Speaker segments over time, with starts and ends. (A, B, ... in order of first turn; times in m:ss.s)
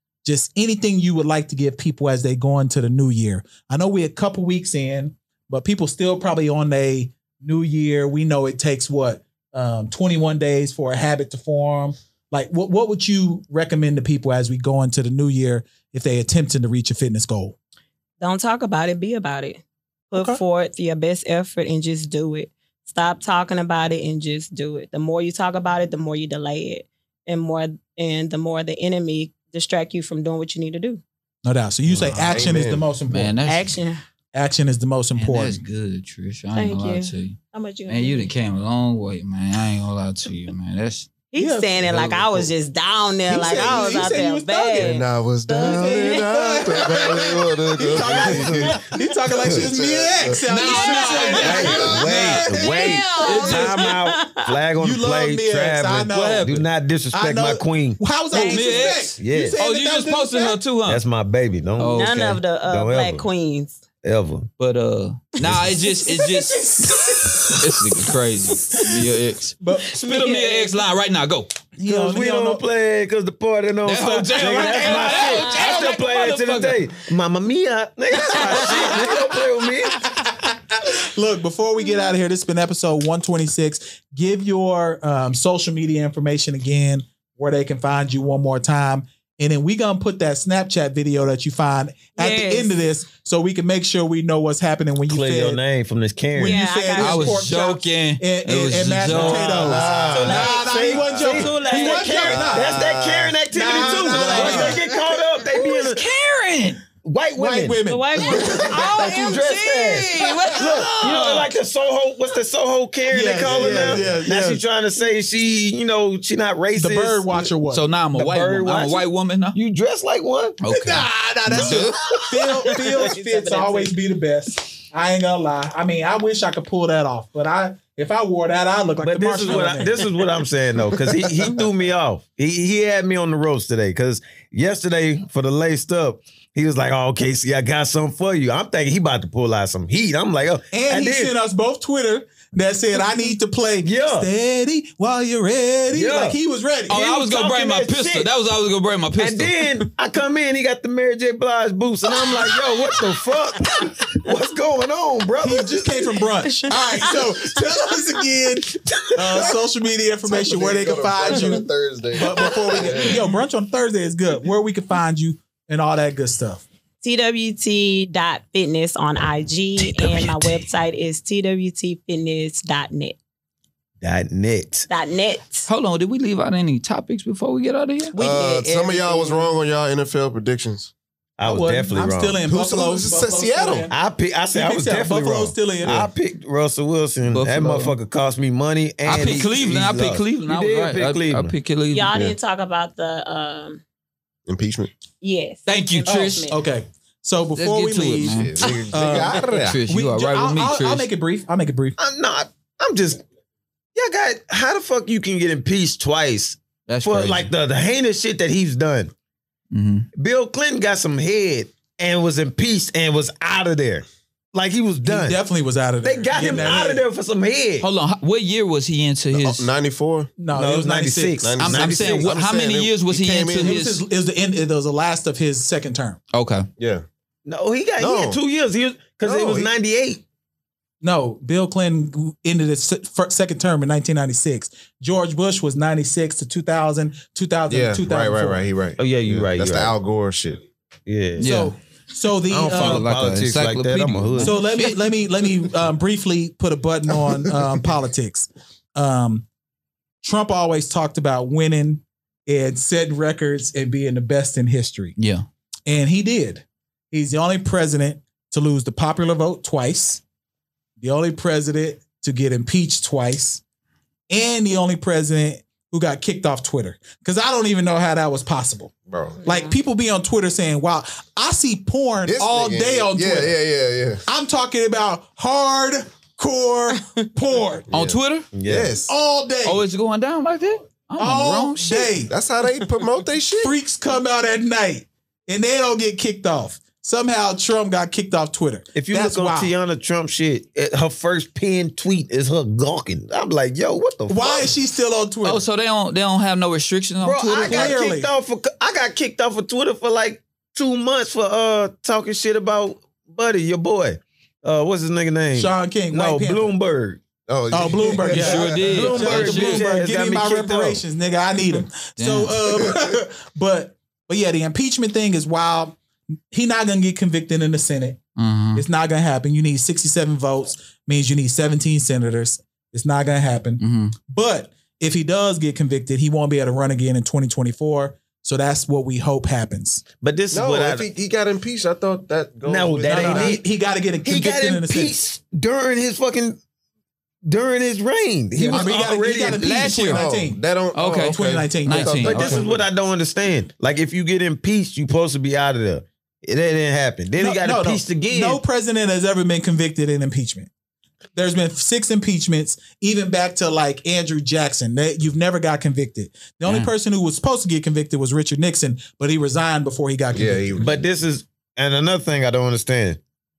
0:00.2-0:17.5 A
0:18.2-0:31.0 B
0:31.4-0:33.3 A
0:31.9-0:32.2 C
0:32.2-0:32.9 D
0:33.1-0:33.8 E
0:33.4-0:34.0 B
0:34.3-0:35.6 A
0:35.1-0:41.1 E
0:36.5-0:38.3 B
0:41.3-0:45.0 B
0:41.4-0:41.8 A
0:41.8-0:42.5 E
0:43.3-0:44.9 A
0:44.8-0:48.8 D
0:45.5-0:53.7 A
0:45.6-0:46.2 B
0:47.9-0:48.8 C
0:49.4-0:49.7 C
0:49.4-0:50.4 D
0:50.5-0:54.0 E
0:50.6-0:51.8 B
0:51.3-0:58.0 C
0:51.7-0:52.0 D
0:52.4-0:54.5 B
0:54.8-1:00.6 A
0:56.2-0:56.5 E
0:58.3-0:59.1 B
0:58.3-1:01.0 E
0:59.2-0:59.6 C
1:00.8-1:03.2 C
1:01.8-1:02.4 E
1:02.0-1:03.8 B
1:04.0-1:04.5 C
1:04.6-1:06.6 E
1:05.6-1:07.8 A
1:07.5-1:11.5 E
1:09.6-1:10.0 A
1:09.9-1:10.8 B
1:11.8-1:12.6 A
1:11.8-1:20.0 C
1:13.8-1:16.9 E
1:14.0-1:15.3 A
1:14.8-1:15.7 B
1:18.1-1:35.6 A
1:18.3-1:19.1 B
1:32.2-1:32.7 B
1:35.0-1:36.6 C
1:36.3-1:42.9 A
1:36.4-1:37.4 B
1:37.0-1:40.1 E
1:39.1-1:46.0 C
1:39.7-1:42.5 B
1:42.2-1:43.4 D
1:42.5-1:42.9 E
1:43.5-1:44.9 A
1:43.8-1:44.8 B
1:44.4-1:44.7 E
1:45.5-1:46.8 E
1:47.0-1:47.8 C
1:47.3-1:49.3 A
1:47.9-1:51.3 B
1:48.5-1:57.5 C
1:50.6-1:51.5 A
1:53.1-1:54.6 A
1:56.7-1:57.8 A
1:57.7-1:59.6 E
1:58.2-2:00.6 C
2:00.6-2:02.7 E
2:00.7-2:10.3 A
2:02.8-2:03.9 B
2:09.0-2:21.3 C
2:20.7-2:27.0 A
2:23.8-2:24.3 C
2:25.9-2:26.4 C
2:26.9-2:29.7 E
2:26.9-2:28.3 C
2:29.2-2:36.0 C
2:35.4-2:46.6 A
2:37.4-2:37.9 B
2:39.0-2:39.4 C
2:40.2-2:43.2 D
2:42.3-2:42.8 B
2:47.0-2:53.2 B
2:49.9-2:50.5 C
2:54.0-2:54.8 C
2:54.9-2:55.7 B
2:55.7-2:58.1 E
2:58.1-2:59.5 B
2:58.2-3:00.9 D
3:01.4-3:02.4 C
3:01.4-3:03.9 A
3:02.5-3:03.9 D
3:03.9-3:11.6 C
3:04.5-3:06.1 A
3:07.3-3:07.9 E
3:09.0-3:12.2 E
3:11.9-3:13.8 B
3:14.5-3:14.9 D
3:15.2-3:16.6 B
3:15.6-3:16.5 E
3:16.0-3:22.0 A
3:17.5-3:18.6 E
3:18.3-3:19.8 D
3:19.4-3:21.1 E
3:22.0-3:23.2 C
3:23.9-3:29.1 C
3:26.9-3:27.5 E
3:29.7-3:30.1 E
3:30.1-3:35.4 C
3:35.0-3:37.0 A
3:36.0-3:37.9 C
3:37.8-3:39.7 E
3:39.3-3:40.3 D
3:40.4-3:41.6 A
3:40.5-3:42.3 C
3:41.4-3:43.8 D
3:41.6-3:44.0 E
3:43.6-3:46.2 A
3:46.3-3:46.7 E
3:46.8-3:47.0 D
3:47.4-3:50.2 C
3:48.0-3:48.4 D
3:49.2-3:49.7 D
3:51.0-3:58.6 A
3:57.7-4:00.6 D
3:59.0-3:59.9 C
4:01.0-4:01.5 C
4:01.4-4:01.7 E
4:01.4-4:03.1 A
4:02.5-4:04.6 C
4:02.7-4:05.1 E
4:04.4-4:09.4 A
4:10.2-4:15.2 A
4:15.2-4:15.4 E
4:15.9-4:20.2 A
4:21.0-4:23.6 A
4:24.3-4:28.9 A
4:29.1-4:29.4 D
4:29.4-4:29.7 B
4:29.4-4:33.6 A
4:32.2-4:34.2 D
4:34.3-4:37.9 A
4:37.9-4:39.1 D
4:37.9-4:38.5 E
4:38.5-4:39.0 C
4:39.1-4:39.8 A
4:39.6-4:42.2 E
4:41.2-4:42.3 A
4:42.3-4:43.8 D
4:43.6-4:49.7 A
4:48.9-4:54.7 C
4:54.3-4:55.6 A
4:55.4-4:57.9 E
4:57.2-5:07.2 C
4:57.6-4:58.3 A
5:05.5-5:06.7 A
5:07.5-5:08.8 D
5:07.7-5:16.0 A
5:07.9-5:11.0 C
5:08.3-5:09.9 E
5:12.2-5:12.8 E
5:16.5-5:18.2 A
5:18.4-5:18.8 E
5:18.7-5:30.0 A
5:23.8-5:24.1 E
5:30.1-5:31.0 C
5:30.5-5:33.6 D
5:32.6-5:33.6 C
5:33.1-5:35.1 A
5:34.2-5:36.6 C
5:37.4-5:39.8 C
5:38.5-5:40.6 A
5:39.5-5:40.2 E
5:40.0-5:42.6 D
5:40.9-5:42.8 E
5:41.2-5:42.7 A
5:42.2-5:48.6 C
5:47.4-5:50.7 A
5:51.3-6:01.0 A
5:56.7-5:56.9 E
6:00.3-6:00.9 D
6:00.8-6:03.2 C